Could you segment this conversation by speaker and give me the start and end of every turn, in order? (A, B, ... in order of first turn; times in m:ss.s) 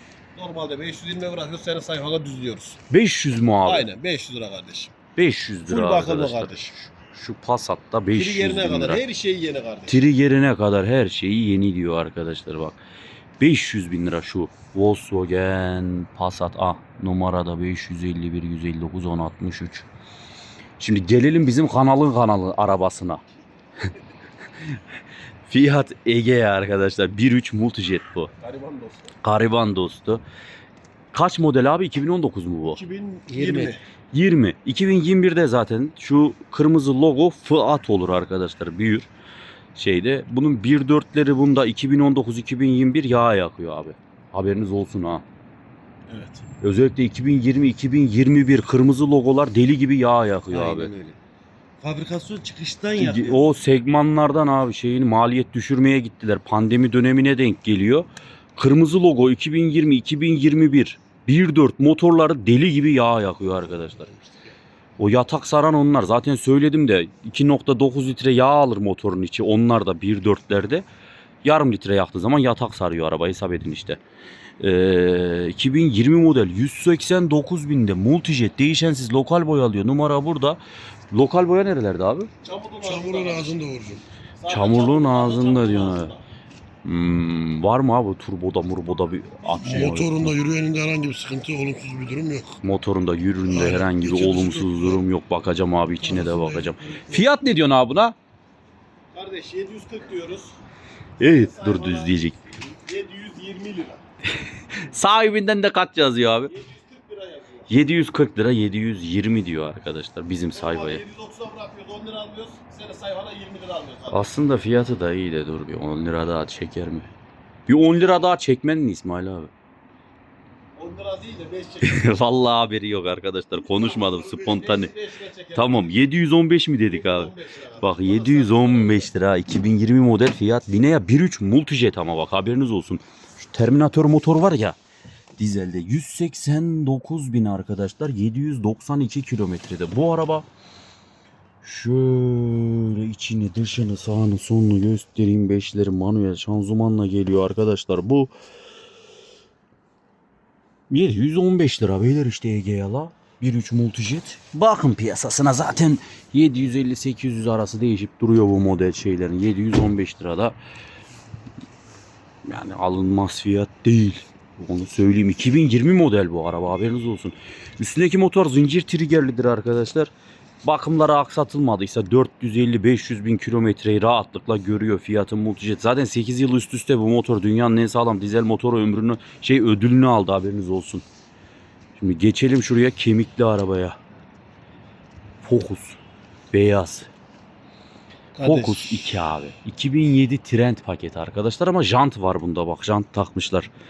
0:00.4-0:02.8 A
0:02.9-0:03.9 B
0:03.6-0:04.9 A
0:05.2-0:09.0 B
0:05.7-0:06.8 A
0:08.1-0:10.0 A
0:09.9-0:12.8 B
0:13.4-0:19.9 B
0:20.8-0:23.2 B
0:25.5-0:28.3 B
0:28.4-0:29.1 A
0:29.2-0:30.2 B
0:31.1-0:32.8 B
0:32.8-0:33.8 A
0:33.3-0:39.1 B
0:39.8-0:45.2 B
0:46.1-0:46.4 A
0:46.6-0:50.9 B
0:50.5-0:51.2 C
0:51.8-0:53.4 C
0:53.0-1:04.1 B
1:03.7-1:04.5 D
1:05.0-1:10.9 B
1:11.4-1:14.0 B
1:14.6-1:22.3 B
1:22.4-1:23.6 A
1:22.8-1:24.0 D
1:24.4-1:26.2 A
1:24.5-1:26.1 B
1:26.8-1:30.3 B
1:29.4-1:30.0 A
1:29.6-1:32.6 D
1:32.6-1:38.2 B
1:33.5-1:35.0 D
1:36.0-1:37.3 D
1:39.1-1:40.6 A
1:41.2-1:42.2 A
1:41.2-1:42.4 B
1:42.8-1:44.0 A
1:44.8-1:46.5 B
1:46.5-1:47.7 A
1:47.7-1:51.0 B
1:50.5-1:54.3 A
1:54.1-1:57.1 B
1:57.7-1:59.5 B
2:00.8-2:02.2 A
2:01.8-2:04.9 B
2:03.6-2:06.0 A
2:05.6-2:14.8 B
2:06.9-2:09.1 A
2:15.4-2:20.5 B
2:21.6-2:28.3 B
2:30.9-2:40.6 B
2:42.4-2:50.1 B
2:50.6-3:01.0 B
3:02.0-3:04.0 B
3:05.4-3:06.0 B
3:06.5-3:07.1 B
3:08.4-3:09.1 A
3:08.4-3:13.7 B